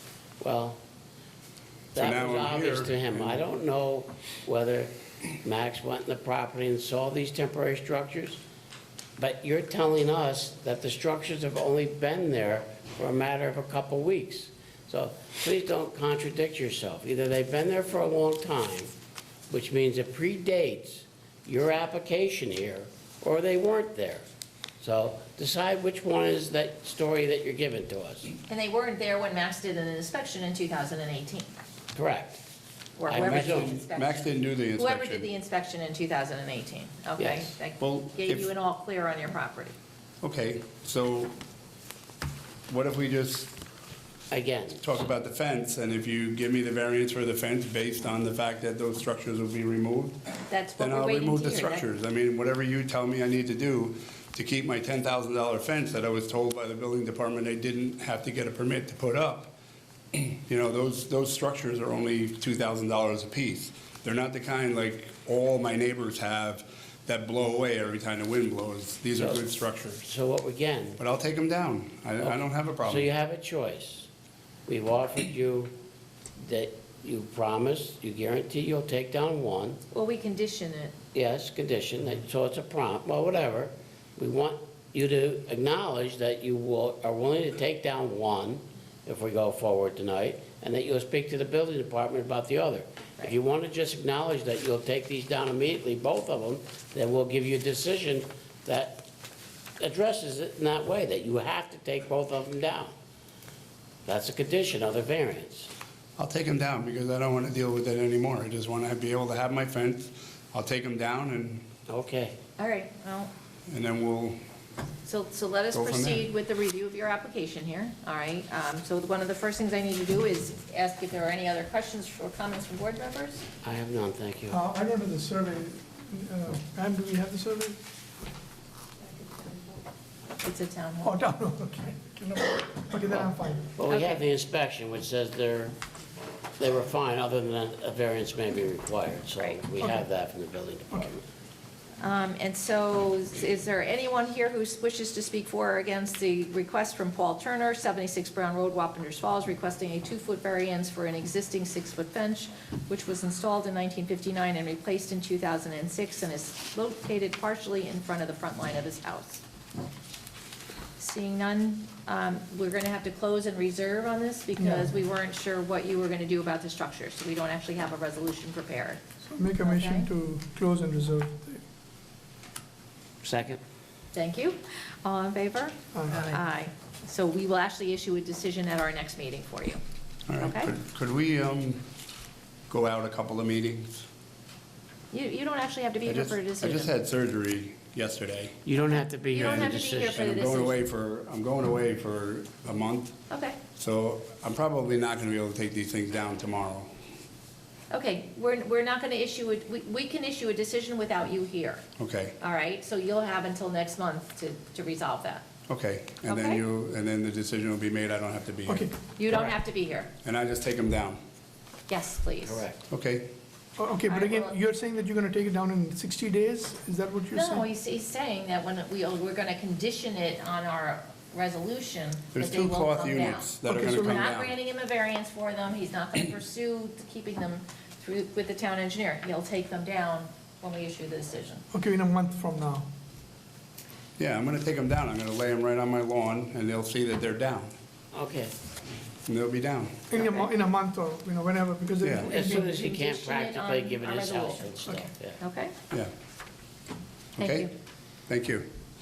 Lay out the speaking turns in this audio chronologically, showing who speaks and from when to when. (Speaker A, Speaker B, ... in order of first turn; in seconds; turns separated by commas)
Speaker A: 0.4-0.8, Speaker A: 1.9-8.4, Speaker B: 1.9-3.5, Speaker A: 9.2-18.9, Speaker A: 19.5-24.2, Speaker A: 24.8-28.3, Speaker C: 28.5-31.6, Speaker A: 31.9-32.4, Speaker C: 33.0-39.7, Speaker A: 33.1-33.8, Speaker B: 33.1-35.3, Speaker A: 37.2-37.4, Speaker B: 37.8-38.5, Speaker B: 40.2-41.3, Speaker B: 42.7-43.5, Speaker A: 44.3-44.8, Speaker B: 44.8-50.1, Speaker C: 50.5-51.9, Speaker B: 50.8-59.5, Speaker B: 60.1-70.1, Speaker A: 69.1-69.4, Speaker A: 70.0-71.0, Speaker B: 71.0-73.1, Speaker A: 72.2-74.1, Speaker A: 74.7-75.7, Speaker A: 76.4-79.8, Speaker C: 79.9-81.0, Speaker A: 81.1-99.0, Speaker A: 99.8-102.9, Speaker A: 104.0-105.7, Speaker B: 106.2-111.6, Speaker A: 111.9-112.3, Speaker C: 112.6-113.3, Speaker B: 113.7-114.4, Speaker C: 115.0-123.4, Speaker B: 115.7-116.3, Speaker A: 123.6-124.6, Speaker D: 124.5-127.8, Speaker C: 129.2-129.6, Speaker C: 130.4-131.2, Speaker D: 131.0-133.7, Speaker A: 133.8-135.7, Speaker C: 133.9-134.2, Speaker A: 136.6-141.2, Speaker C: 142.0-159.4, Speaker C: 161.0-169.0, Speaker D: 164.6-164.9, Speaker D: 169.3-171.6, Speaker C: 169.6-170.1, Speaker A: 173.2-173.6, Speaker C: 174.1-179.8, Speaker D: 175.9-176.4, Speaker B: 180.3-181.8, Speaker C: 180.4-180.7, Speaker B: 182.7-184.1, Speaker C: 185.1-186.9, Speaker B: 186.1-188.6, Speaker A: 188.6-190.2, Speaker C: 188.9-190.8, Speaker B: 189.4-193.2, Speaker C: 193.3-193.6, Speaker B: 193.8-196.9, Speaker C: 197.9-201.8, Speaker B: 202.0-202.3, Speaker C: 202.4-205.4, Speaker B: 205.7-209.5, Speaker C: 206.2-206.6, Speaker D: 208.7-208.9, Speaker C: 209.2-210.1, Speaker B: 210.2-211.2, Speaker C: 211.9-212.6, Speaker A: 212.4-212.8, Speaker B: 212.9-213.3, Speaker D: 213.8-217.7, Speaker C: 213.9-214.5, Speaker C: 217.3-231.6, Speaker B: 222.3-224.5, Speaker D: 223.7-224.2, Speaker D: 231.7-232.8, Speaker B: 234.2-237.7, Speaker A: 238.1-238.5, Speaker B: 239.2-240.1, Speaker D: 240.1-242.7, Speaker C: 240.2-240.4, Speaker B: 242.0-242.3, Speaker A: 242.2-245.4, Speaker C: 242.3-245.7, Speaker B: 247.4-247.7, Speaker C: 247.4-247.7, Speaker B: 248.3-248.7